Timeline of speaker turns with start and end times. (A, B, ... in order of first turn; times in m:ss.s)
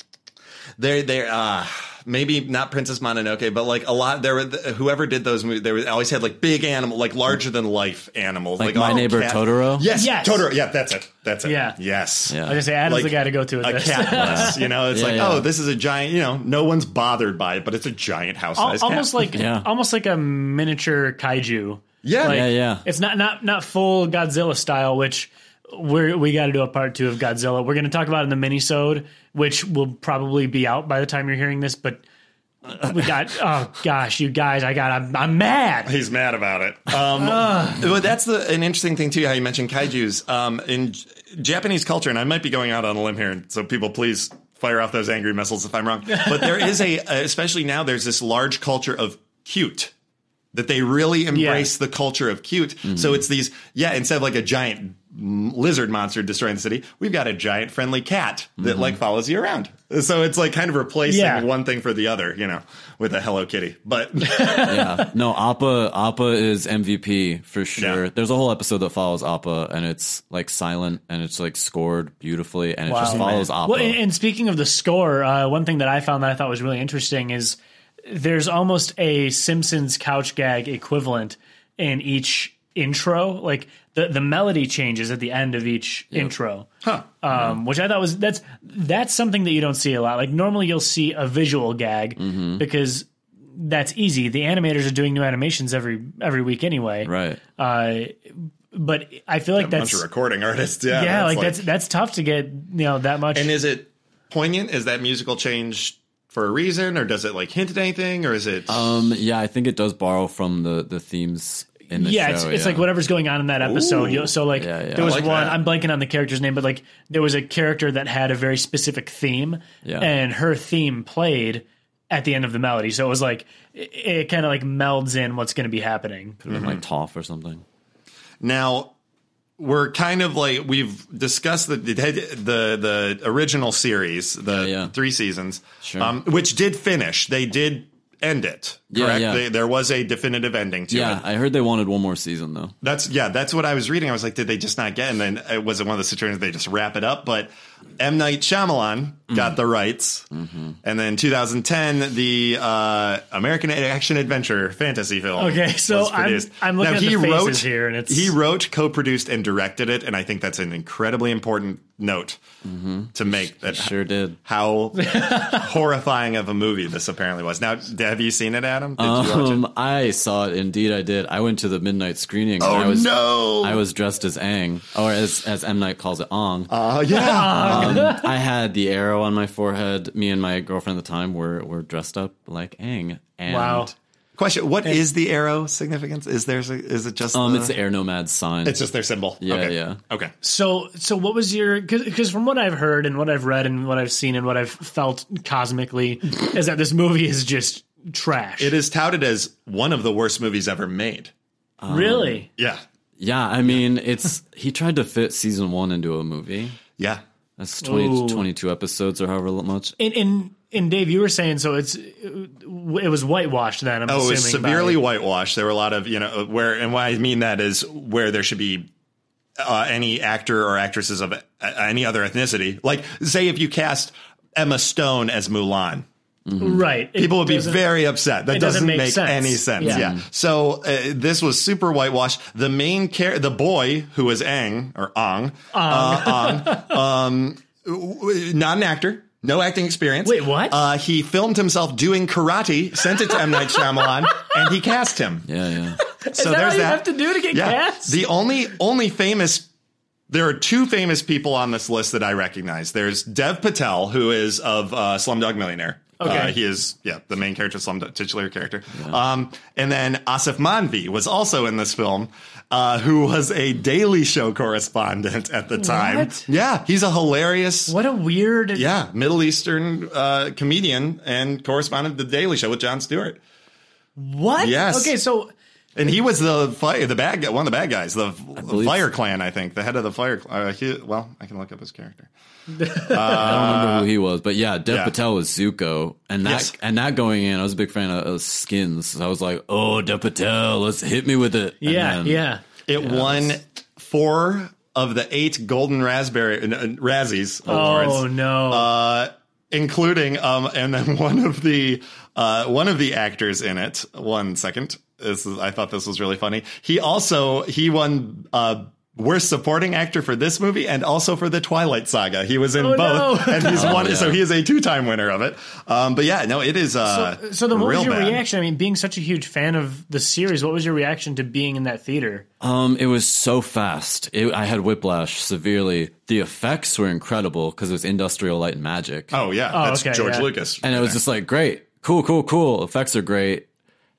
0:00.8-0:19.3 A
0:08.6-0:09.9 B
0:09.9-0:10.5 C
0:11.4-0:11.8 C
0:12.3-0:12.6 B
0:12.4-0:14.6 C
0:14.1-0:15.5 B
0:18.6-0:32.0 C
0:19.3-0:19.7 B
0:22.0-0:22.4 A
0:22.2-0:22.8 B
0:32.7-0:35.9 C
0:35.8-0:49.9 A
0:37.2-0:37.8 C
0:46.1-0:46.8 C
0:50.5-1:04.6 A
0:51.3-0:51.7 C
0:52.9-0:53.2 B
0:58.6-0:59.0 B
1:01.0-1:01.5 C
1:04.2-1:05.1 C
1:04.6-1:14.0 B
1:07.8-1:08.0 A
1:12.9-1:26.7 C
1:13.0-1:13.5 A
1:27.2-1:40.0 C
1:32.2-1:32.6 B
1:37.0-1:37.4 B
1:39.6-1:41.6 A
1:40.9-1:43.5 C
1:43.3-1:48.9 A
1:48.7-1:52.9 B
1:51.9-2:06.4 C
1:53.6-1:54.3 A
1:54.5-1:55.2 B
1:55.0-1:55.6 A
1:59.8-2:00.1 B
2:06.4-2:07.6 B
2:06.5-2:06.8 A
2:08.4-2:08.9 A
2:09.6-2:21.2 A
2:14.5-2:14.9 B
2:15.8-2:16.1 B
2:18.9-2:19.4 B
2:20.9-2:22.7 B
2:22.8-2:30.3 A
2:30.3-2:30.7 B
2:30.8-2:42.4 A
2:35.4-2:38.3 C
2:42.6-2:44.4 B
2:43.1-2:49.6 A
2:45.0-2:45.7 C
2:49.0-2:56.7 B
2:52.6-2:53.8 A
2:56.7-2:58.1 A
2:57.1-2:58.3 C
2:57.6-3:03.9 B
3:03.5-3:03.9 C
3:04.4-3:07.8 A
3:07.3-3:08.8 B
3:08.6-3:10.3 A
3:09.4-3:10.0 B
3:10.4-3:18.7 C
3:18.6-3:21.3 A
3:21.8-3:22.4 B
3:21.9-3:22.5 C
3:22.6-3:22.8 A
3:23.2-3:26.8 B
3:27.6-3:30.0 B
3:27.8-3:28.4 C
3:30.0-3:35.0 C
3:34.1-3:38.9 A
3:39.6-3:46.0 A
3:46.5-3:46.8 B
3:46.6-3:47.8 C
3:47.2-4:05.5 A
3:48.5-3:50.1 C
3:49.8-3:50.2 B
3:55.7-3:57.0 C
4:00.2-4:00.8 C
4:03.5-4:04.5 C
4:05.5-4:06.0 B
4:06.0-4:08.2 C
4:06.3-4:09.7 A
4:10.3-4:27.9 A
4:16.2-4:16.5 C
4:25.8-4:26.4 C
4:27.9-4:28.9 C
4:28.7-4:33.4 A
4:34.2-4:35.5 C
4:34.6-4:35.1 A
4:35.9-4:42.3 A
4:38.6-4:39.0 B
4:42.7-4:43.5 C
4:42.9-4:44.1 A
4:43.2-4:52.4 B
4:44.9-4:45.1 A
4:46.4-4:46.7 A
4:51.8-4:52.6 C
4:52.9-5:18.4 A
4:53.0-4:53.5 B
4:57.7-4:58.9 C
4:57.7-4:58.0 B
5:12.8-5:14.0 C
5:13.6-5:14.4 B
5:17.0-5:22.4 C
5:22.6-5:29.3 B
5:29.3-5:31.2 A
5:29.7-5:30.5 C
5:30.8-5:33.6 B